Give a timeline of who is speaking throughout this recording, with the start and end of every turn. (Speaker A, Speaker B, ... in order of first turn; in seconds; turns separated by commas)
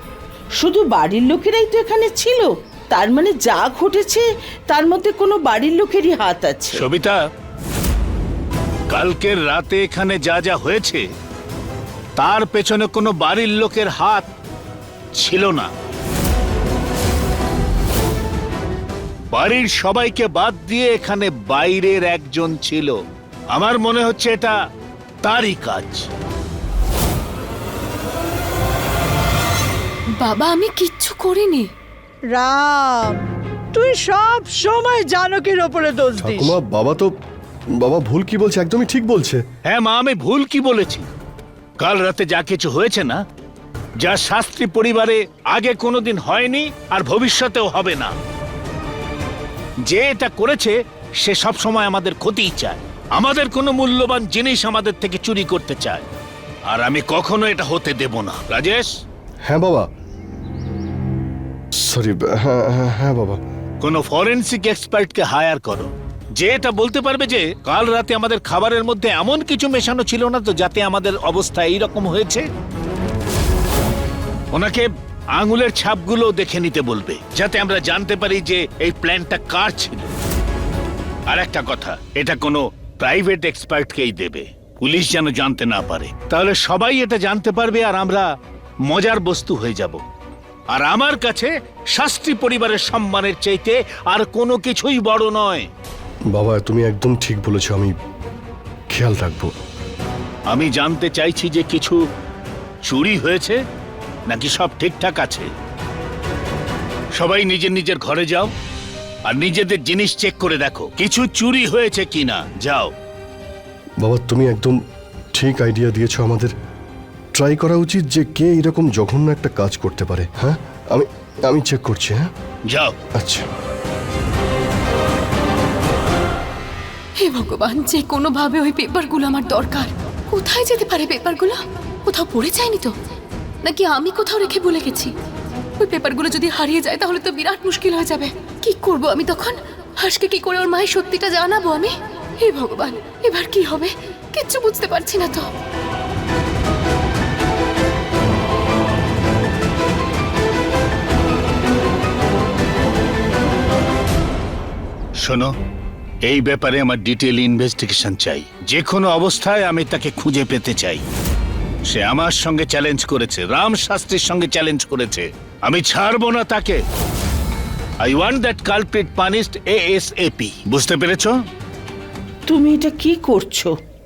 Speaker A: 0.6-6.8, Speaker B: 6.8-7.2, Speaker B: 8.9-11.0, Speaker B: 12.2-14.3, Speaker B: 15.2-15.7, Speaker B: 19.3-23.0, Speaker B: 23.5-24.5, Speaker B: 25.2-26.1, Speaker C: 30.2-31.7, Speaker D: 32.3-33.2, Speaker D: 33.7-36.5, Speaker E: 36.2-37.1, Speaker E: 37.8-39.4, Speaker B: 39.6-41.0, Speaker B: 41.8-43.2, Speaker B: 44.0-48.1, Speaker B: 49.9-56.0, Speaker B: 56.7-58.9, Speaker E: 59.4-59.9, Speaker E: 61.7-63.4, Speaker B: 63.8-72.5, Speaker B: 74.5-80.1, Speaker B: 81.3-88.3, Speaker B: 88.8-90.0, Speaker B: 90.7-95.7, Speaker E: 96.3-97.9, Speaker E: 98.9-99.5, Speaker B: 100.5-102.0, Speaker B: 102.8-103.6, Speaker B: 104.3-105.5, Speaker B: 107.2-108.5, Speaker B: 109.3-112.9, Speaker E: 114.0-114.8, Speaker E: 115.3-116.5, Speaker E: 117.3-122.3, Speaker B: 122.7-122.9, Speaker E: 123.2-123.5, Speaker C: 127.2-132.9, Speaker C: 133.6-135.1, Speaker C: 135.8-145.5, Speaker B: 155.2-155.5, Speaker B: 156.2-161.0, Speaker B: 161.9-166.8, Speaker B: 168.0-171.4, Speaker A: 172.5-173.7